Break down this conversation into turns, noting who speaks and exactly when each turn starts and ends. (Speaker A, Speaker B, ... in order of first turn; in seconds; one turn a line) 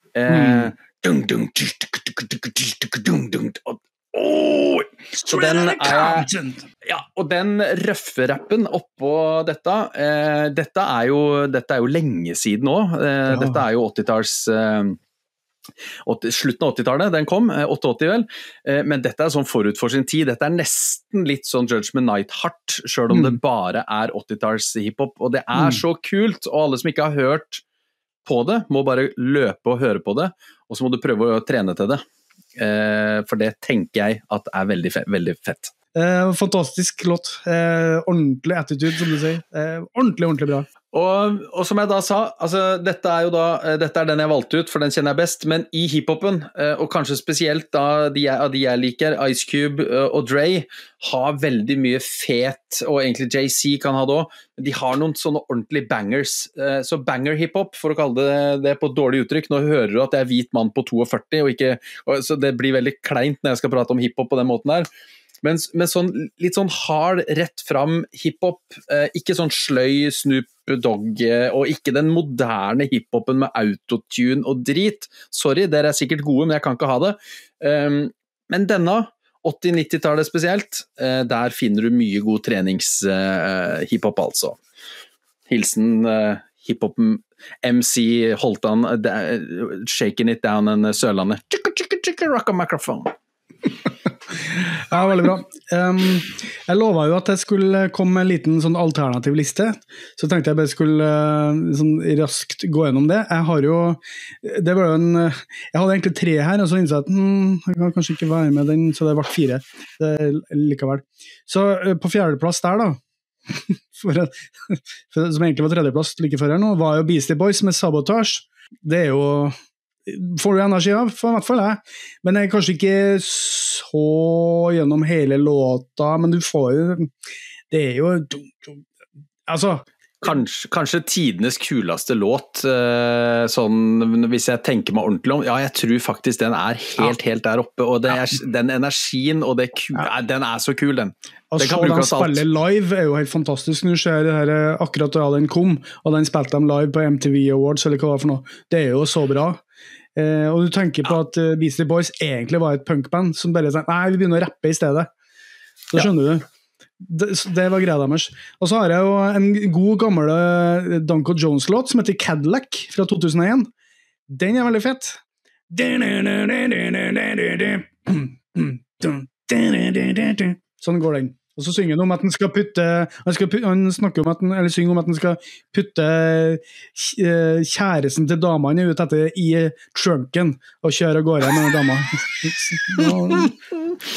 Speaker A: 0.1-6.3
Speaker B: 0.3-0.7
Speaker B: 5.2-6.7
Speaker A: 6.8-15.0
Speaker B: 13.3-13.6
Speaker A: 16.0-27.6
Speaker B: 23.1-23.4
Speaker A: 28.2-32.0
Speaker A: 32.5-35.7
Speaker B: 35.9-40.7
Speaker A: 40.9-64.9
Speaker A: 65.4-84.6
Speaker A: 85.5-93.1
Speaker B: 94.9-127.1
Speaker B: 127.7-128.8
Speaker B: 129.5-129.8
Speaker A: 130.2-142.4
Speaker B: 141.5-149.6
Speaker B: 150.2-155.1
Speaker B: 155.9-156.5
Speaker B: 157.0-163.7
Speaker B: 164.3-183.5
Speaker A: 183.0-184.0